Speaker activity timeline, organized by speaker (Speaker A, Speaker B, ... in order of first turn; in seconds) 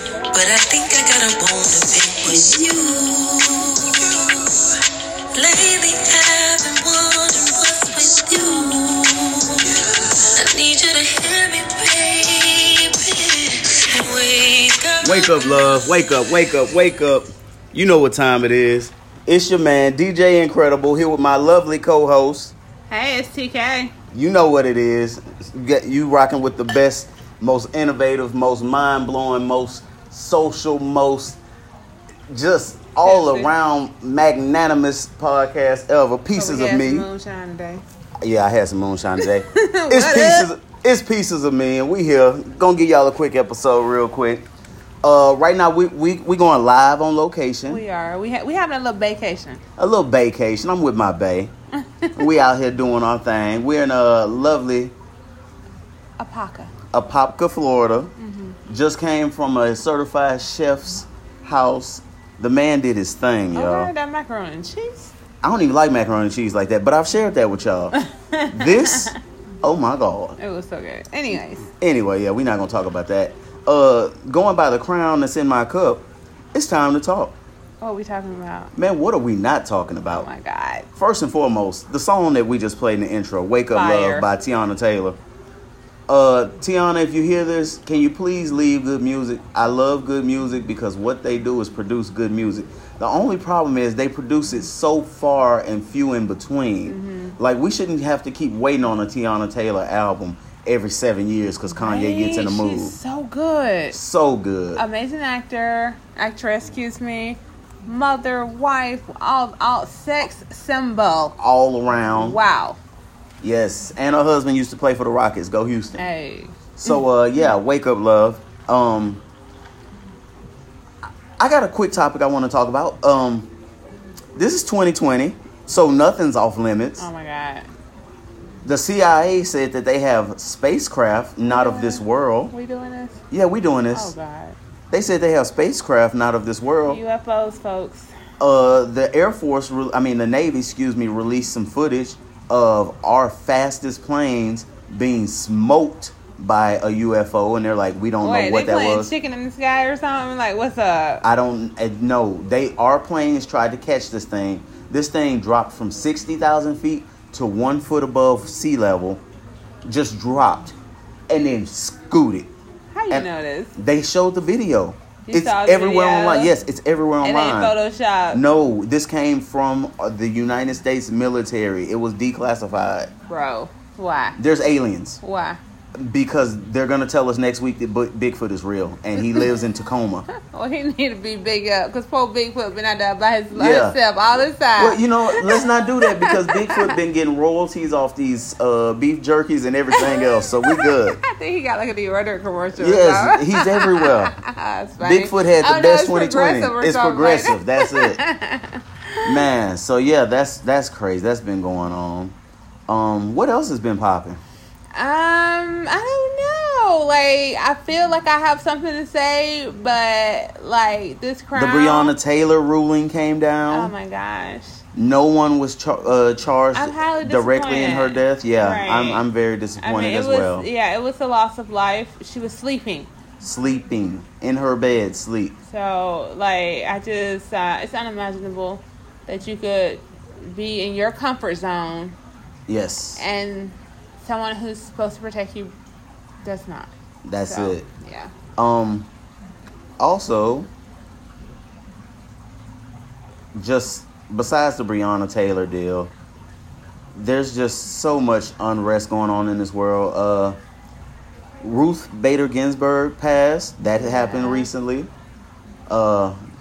Speaker A: 0.3-4.7, 5.3-16.0
Speaker B: 15.0-22.5, 24.1-31.4, 32.3-37.1, 38.2-44.4, 45.0-47.8, 49.8-51.5, 52.2-54.9, 56.9-58.1, 58.7-63.9, 65.4-68.0, 68.5-70.4, 71.8-77.4, 78.8-80.3, 81.0-85.2, 86.1-103.0, 103.9-104.8, 111.4-112.4, 113.4-116.0, 116.8-119.2, 121.4-123.5, 124.4-127.1, 128.7-132.5, 133.3-134.1, 134.9-137.0, 138.4-149.1, 151.2-159.2, 159.8-160.8, 161.3-162.5, 163.1-167.8, 168.3-173.1, 174.4-175.2, 176.0-180.3, 183.5-184.0, 184.8-191.2, 192.8-194.4, 195.0-198.2, 199.2-202.3, 202.9-204.4, 211.6-213.9, 214.9-220.7, 223.4-225.6, 232.7-233.2, 237.2-237.9, 238.6-239.1, 240.0-240.7, 243.5-246.1, 247.1-250.6, 251.6-255.1, 255.9-256.4
Speaker C: 22.9-23.9, 33.0-33.5, 36.3-37.8, 39.2-40.5, 47.7-49.6, 56.2-56.7, 58.2-58.6, 63.5-65.1, 67.9-69.2, 70.4-71.7, 77.8-78.7, 80.1-80.9, 83.7-84.3, 96.9-97.4, 101.8-104.0, 104.8-111.3, 112.1-112.8, 116.0-117.0, 127.0-127.7, 131.4-133.2, 133.9-134.6, 136.9-138.1, 148.2-151.2, 162.9-163.7, 165.3-166.6, 167.2-168.4, 173.3-174.4, 175.2-175.6, 179.2-179.5, 180.3-186.9, 189.9-199.4, 204.9-212.1, 213.7-214.8, 216.7-219.3, 219.8-223.1, 225.6-232.2, 233.2-235.7, 236.4-236.9, 237.4-238.3, 254.0-254.7